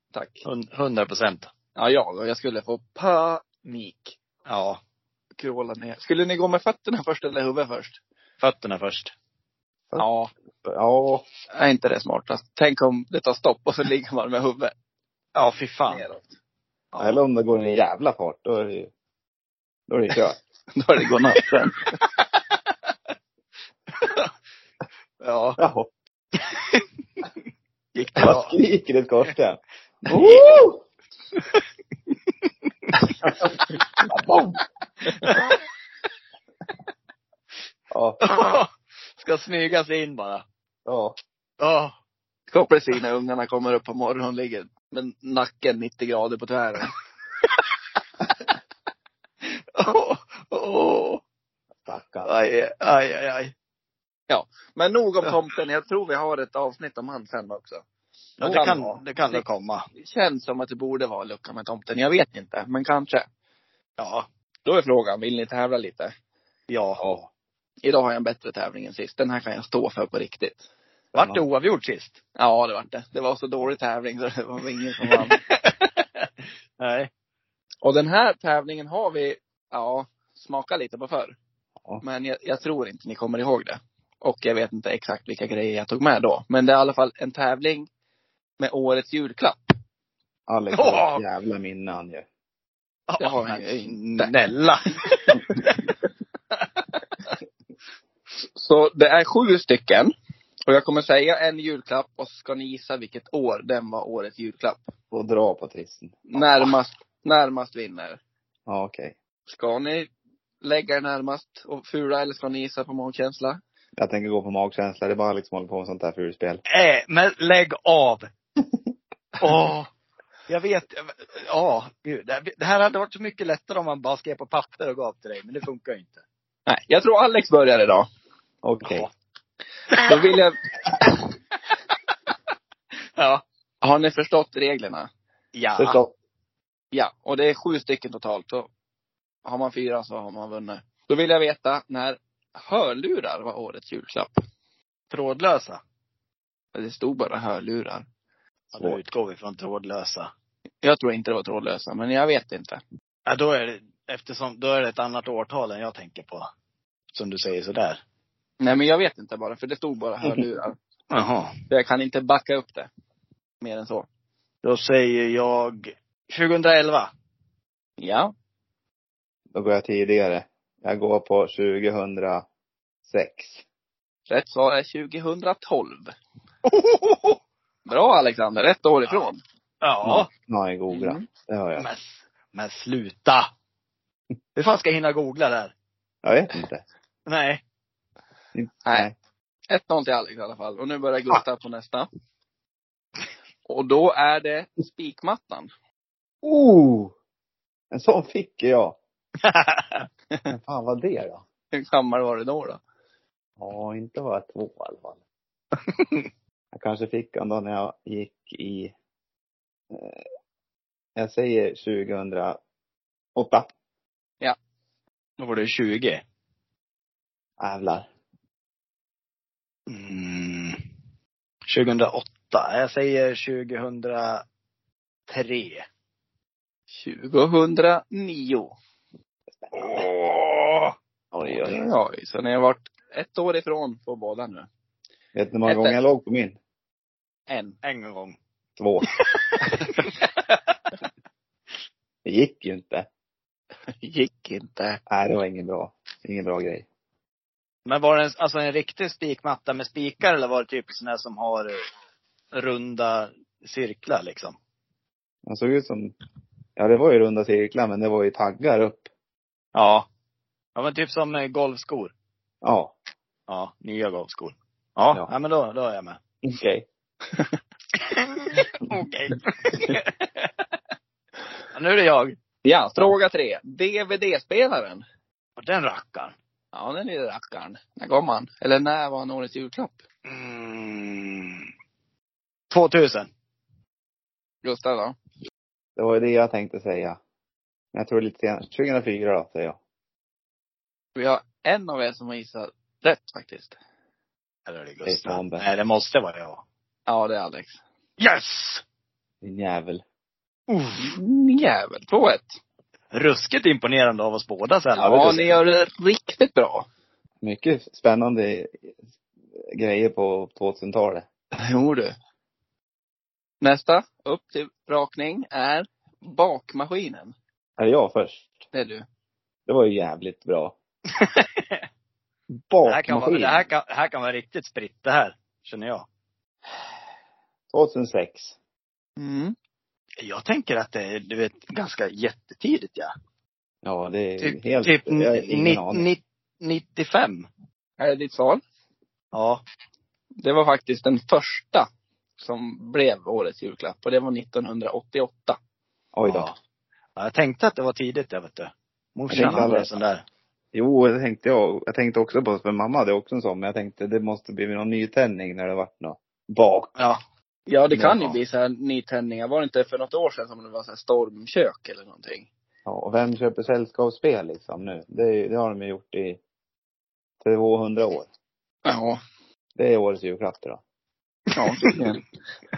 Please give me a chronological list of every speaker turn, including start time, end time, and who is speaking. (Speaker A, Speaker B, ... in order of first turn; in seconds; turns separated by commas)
Speaker A: 0.1-0.5, Speaker B: 0.5-1.5, Speaker A: 1.8-4.2, Speaker B: 4.5-4.8, Speaker A: 5.4-8.0, Speaker B: 8.4-9.1, Speaker A: 10.0-10.3, Speaker C: 10.6-11.2, Speaker A: 11.6-14.7, Speaker B: 15.3-16.1, Speaker A: 15.9-16.3, Speaker B: 16.9-17.2, Speaker C: 17.0-18.9, Speaker C: 19.9-20.4, Speaker A: 20.8-21.9, Speaker B: 24.0-24.3, Speaker B: 25.2-25.6, Speaker C: 25.6-25.9, Speaker B: 26.4-26.9, Speaker B: 27.9-28.6, Speaker C: 28.2-30.8, Speaker A: 30.2-30.4, Speaker B: 30.2-30.5, Speaker B: 31.4-31.6, Speaker C: 34.1-34.6, Speaker B: 35.2-35.5, Speaker C: 37.9-38.2, Speaker B: 38.2-40.4, Speaker C: 40.9-41.2, Speaker B: 41.6-41.9, Speaker A: 42.5-46.9, Speaker B: 49.5-51.2, Speaker C: 51.9-52.3, Speaker B: 52.2-53.5, Speaker A: 54.3-57.8, Speaker B: 58.4-59.9, Speaker A: 58.4-59.4, Speaker A: 60.0-63.3, Speaker B: 64.0-64.3, Speaker A: 64.7-66.1, Speaker B: 66.7-67.0, Speaker C: 67.0-67.3, Speaker A: 67.8-70.6, Speaker B: 71.1-72.2, Speaker C: 71.2-71.4, Speaker A: 72.4-75.4, Speaker B: 75.1-76.3, Speaker B: 76.8-77.1, Speaker A: 77.8-81.4, Speaker A: 82.0-87.9, Speaker A: 88.6-89.7, Speaker C: 90.5-92.3, Speaker B: 90.7-91.2, Speaker B: 93.1-95.8, Speaker A: 93.2-94.3, Speaker A: 98.6-100.1, Speaker A: 100.7-104.9, Speaker C: 105.1-106.3, Speaker A: 106.3-108.2, Speaker C: 108.7-109.2, Speaker A: 109.5-110.1, Speaker A: 110.6-113.6, Speaker C: 114.0-116.6, Speaker B: 116.7-118.3, Speaker B: 119.4-119.9, Speaker B: 120.5-126.2, Speaker A: 126.7-128.1, Speaker C: 128.6-129.1, Speaker B: 128.8-129.1, Speaker A: 129.9-131.2, Speaker B: 133.2-133.4, Speaker A: 133.8-135.1, Speaker B: 135.5-136.0, Speaker C: 135.8-136.1, Speaker A: 136.9-138.7, Speaker A: 139.4-144.4, Speaker B: 145.1-145.8, Speaker A: 146.7-148.1, Speaker B: 148.7-150.3, Speaker A: 150.8-152.8, Speaker B: 153.3-156.5, Speaker B: 157.1-158.0, Speaker A: 158.6-160.8, Speaker B: 161.1-161.5, Speaker A: 161.7-162.9, Speaker A: 163.6-164.1, Speaker B: 164.6-167.1, Speaker A: 168.0-168.3, Speaker C: 169.5-172.4, Speaker C: 173.1-173.6, Speaker A: 174.3-176.1, Speaker B: 176.7-177.4, Speaker A: 177.9-179.4, Speaker B: 179.8-180.3, Speaker C: 180.0-181.9, Speaker A: 180.9-181.2, Speaker B: 181.8-183.5, Speaker B: 184.6-185.7, Speaker C: 186.2-186.8, Speaker B: 187.3-187.6, Speaker C: 188.5-189.1, Speaker A: 189.7-192.1, Speaker A: 193.7-195.7, Speaker C: 196.4-197.1, Speaker C: 197.9-199.0, Speaker B: 199.4-200.1, Speaker C: 200.5-201.4, Speaker A: 201.7-202.8, Speaker C: 203.6-205.2, Speaker C: 206.7-208.9, Speaker C: 209.9-210.2, Speaker C: 211.2-212.6, Speaker C: 213.3-213.7, Speaker B: 215.4-216.2, Speaker C: 217.6-218.1, Speaker B: 219.9-220.8, Speaker B: 221.7-224.4, Speaker B: 225.3-225.8, Speaker A: 226.9-228.7, Speaker C: 229.6-230.0, Speaker B: 229.7-230.9, Speaker C: 231.3-231.8, Speaker A: 231.4-234.7, Speaker C: 235.3-236.6, Speaker A: 235.7-236.0, Speaker A: 237.5-237.8, Speaker B: 237.8-238.4, Speaker C: 238.8-239.1, Speaker B: 239.2-240.5, Speaker C: 242.2-243.1, Speaker A: 244.0-245.0, Speaker C: 245.1-246.9, Speaker B: 247.9-251.9, Speaker B: 252.5-254.6, Speaker C: 255.5-256.1, Speaker C: 256.8-259.1, Speaker B: 259.7-260.1, Speaker B: 260.8-262.1, Speaker C: 262.6-262.9, Speaker B: 263.5-266.2, Speaker C: 266.4-266.9, Speaker B: 268.0-270.5, Speaker B: 271.7-272.4, Speaker A: 272.6-275.0, Speaker B: 275.6-276.4, Speaker A: 276.7-280.0, Speaker B: 280.3-281.7, Speaker B: 282.7-283.3, Speaker A: 284.6-285.2, Speaker C: 286.0-287.2, Speaker C: 287.9-289.8, Speaker A: 291.2-293.8, Speaker B: 294.7-296.6, Speaker C: 295.1-295.6, Speaker A: 297.1-297.8, Speaker B: 298.2-298.8, Speaker C: 299.4-300.0, Speaker B: 300.7-301.2, Speaker A: 301.0-302.6, Speaker B: 303.1-305.6, Speaker A: 305.0-306.9, Speaker C: 305.0-305.4, Speaker C: 307.4-308.8, Speaker C: 309.7-311.3, Speaker A: 311.6-312.1, Speaker A: 313.6-317.4, Speaker C: 317.8-318.6, Speaker A: 318.7-319.1, Speaker C: 319.7-320.8, Speaker B: 321.2-321.9, Speaker C: 322.7-323.7, Speaker B: 322.9-326.1, Speaker C: 327.7-328.6, Speaker A: 329.2-329.6, Speaker B: 330.2-333.1, Speaker C: 333.8-336.1, Speaker B: 334.4-337.5, Speaker A: 338.0-338.6, Speaker B: 339.3-339.6, Speaker A: 340.4-341.9, Speaker A: 342.4-345.6, Speaker C: 346.1-346.5, Speaker B: 346.3-346.6, Speaker B: 347.2-350.2, Speaker C: 349.3-349.9, Speaker A: 349.4-349.6, Speaker C: 350.7-356.9, Speaker A: 357.7-362.5, Speaker C: 357.9-358.3, Speaker C: 362.9-366.4, Speaker C: 367.4-368.3, Speaker A: 368.9-369.2, Speaker C: 369.8-370.8, Speaker A: 371.6-372.2